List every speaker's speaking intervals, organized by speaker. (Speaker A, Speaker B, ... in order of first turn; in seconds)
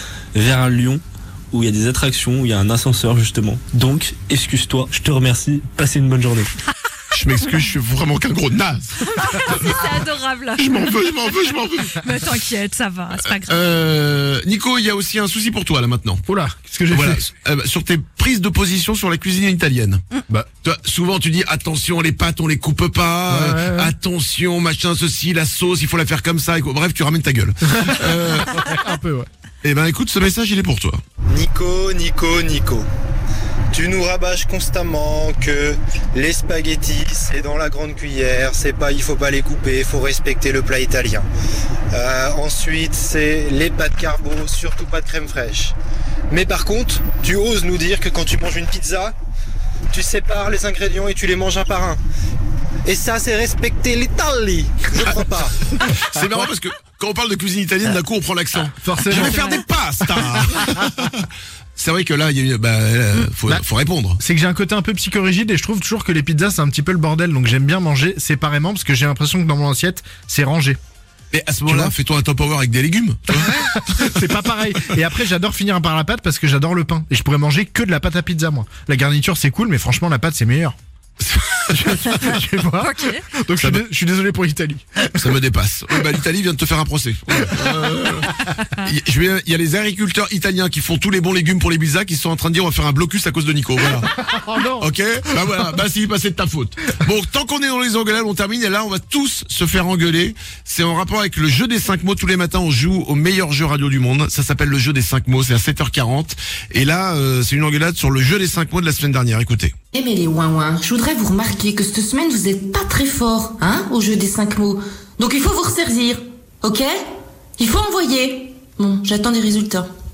Speaker A: 0.3-6.5
Speaker B: 7.1-9.7, 10.6-12.0, 13.4-16.2, 16.9-20.0, 20.6-28.7, 29.6-31.0, 55.8-61.2, 61.8-64.2, 71.3-74.1, 83.6-83.8, 85.1-94.1, 94.8-109.7
Speaker C: 9.1-13.7, 82.8-83.2
Speaker D: 16.2-17.2, 23.3-23.9, 27.7-29.3, 56.1-56.4, 58.8-60.3, 64.2-70.8, 71.7-71.9, 73.3-80.8, 81.6-85.3, 94.2-94.9
Speaker E: 31.3-32.9, 33.7-41.3, 41.9-45.7, 46.3-49.1, 49.9-52.0, 52.8-55.6
Speaker F: 109.9-116.9, 117.6-119.9